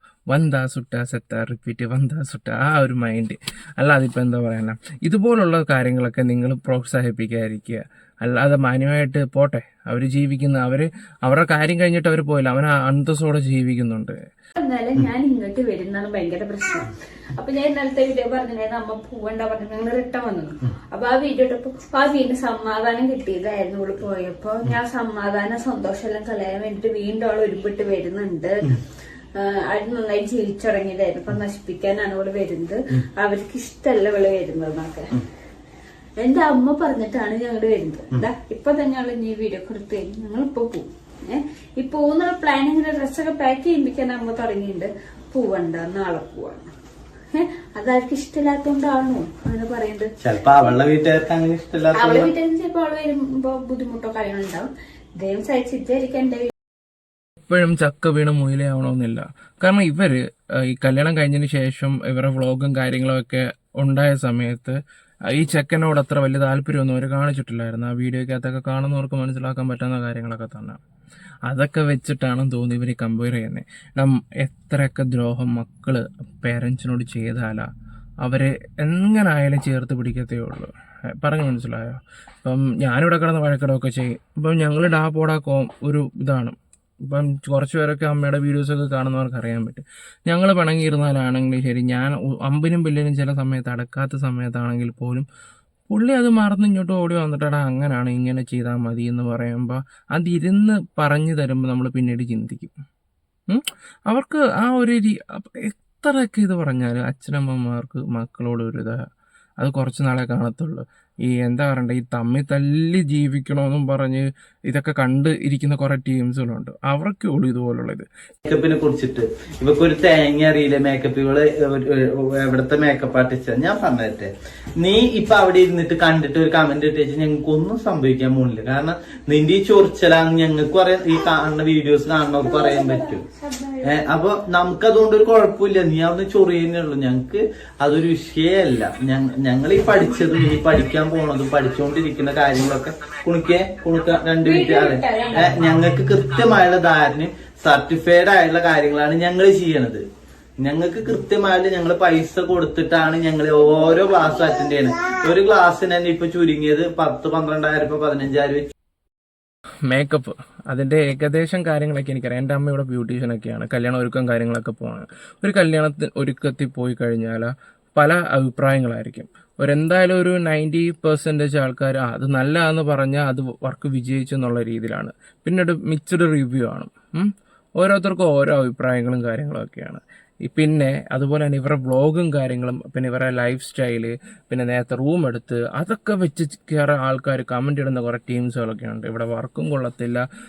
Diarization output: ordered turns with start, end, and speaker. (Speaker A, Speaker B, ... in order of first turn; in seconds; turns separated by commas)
Speaker A: 0.3-14.2, Speaker B: 14.6-28.8, Speaker B: 29.4-35.1, Speaker B: 36.2-46.7, Speaker B: 47.3-50.8, Speaker C: 50.2-52.3, Speaker B: 51.9-56.5, Speaker A: 57.5-64.8, Speaker A: 65.3-70.8, Speaker A: 71.5-77.7, Speaker A: 78.2-86.5, Speaker A: 87.1-95.3, Speaker A: 95.9-102.7, Speaker A: 103.5-109.0, Speaker A: 109.6-118.1, Speaker C: 118.5-133.2, Speaker B: 132.4-134.1, Speaker C: 133.8-150.0, Speaker B: 144.4-145.7, Speaker C: 150.6-158.7, Speaker A: 159.9-190.2